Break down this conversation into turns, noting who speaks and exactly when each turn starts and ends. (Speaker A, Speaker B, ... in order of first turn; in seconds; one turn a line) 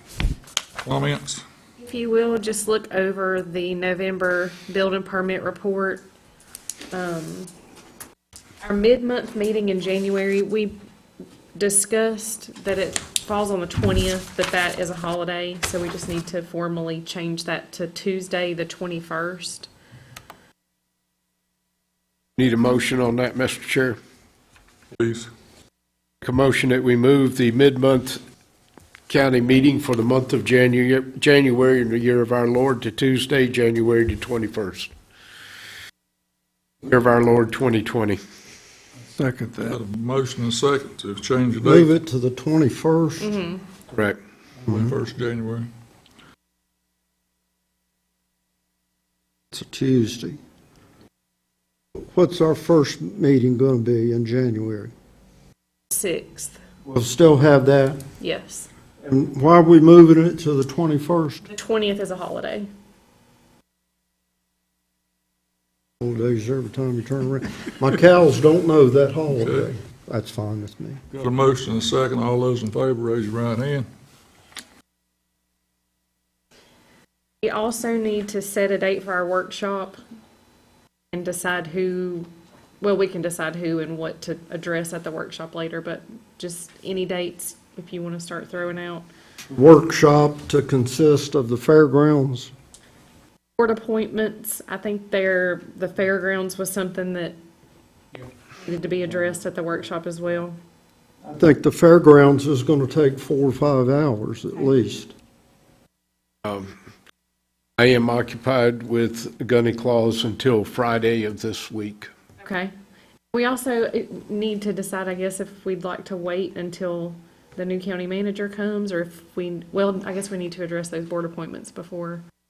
Speaker A: 0.8-1.4
Speaker B: 1.8-6.0
Speaker B: 6.9-7.5
Speaker B: 8.6-10.8
Speaker B: 11.6-19.7
Speaker C: 22.4-24.0
Speaker A: 25.0-25.3
Speaker C: 26.2-28.2
Speaker C: 29.1-34.9
Speaker C: 36.8-38.2
Speaker A: 39.6-41.9
Speaker D: 41.6-43.3
Speaker B: 43.2-43.6
Speaker C: 43.9-44.2
Speaker A: 44.6-45.7
Speaker D: 49.5-50.4
Speaker D: 52.1-54.9
Speaker B: 55.9-56.6
Speaker D: 56.9-58.0
Speaker B: 58.2-58.7
Speaker D: 59.0-61.5
Speaker B: 61.5-62.7
Speaker D: 66.0-71.0
Speaker A: 69.3-69.7
Speaker A: 71.1-73.9
Speaker B: 77.4-80.0
Speaker B: 81.1-82.3
Speaker B: 82.8-89.0
Speaker D: 89.5-92.5
Speaker B: 93.6-97.4
Speaker B: 98.6-100.5
Speaker D: 101.3-105.1
Speaker C: 106.4-106.7
Speaker C: 107.8-112.1
Speaker B: 112.4-112.7
Speaker B: 113.3-122.2